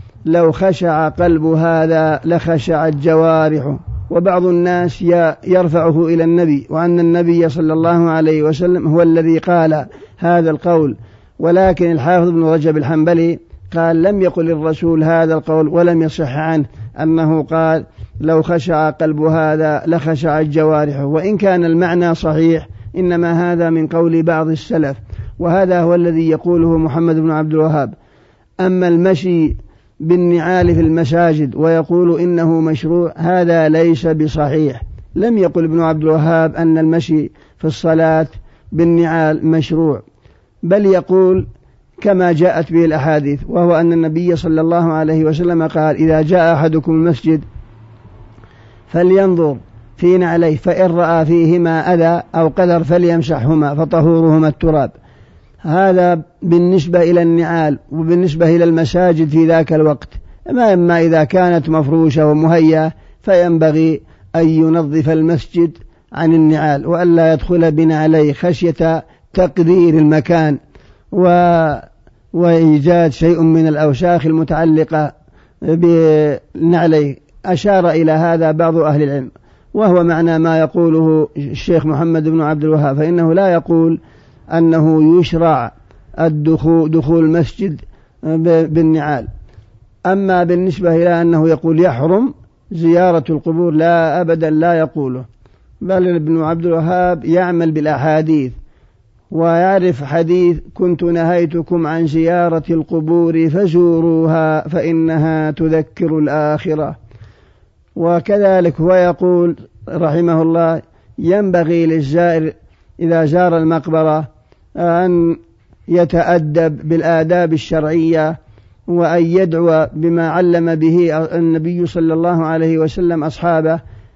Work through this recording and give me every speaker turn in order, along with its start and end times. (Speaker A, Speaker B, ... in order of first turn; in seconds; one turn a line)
Speaker A: 0.3-27.9
Speaker A: 28.6-40.0
Speaker A: 40.6-41.5
Speaker A: 42.0-47.5
Speaker A: 48.9-54.9
Speaker A: 55.6-70.6
Speaker A: 71.1-75.1
Speaker A: 75.6-84.0
Speaker A: 84.5-89.3
Speaker A: 90.1-95.2
Speaker A: 95.8-98.5
Speaker A: 99.3-107.0
Speaker A: 108.0-114.3
Speaker A: 114.8-118.3
Speaker A: 118.9-123.8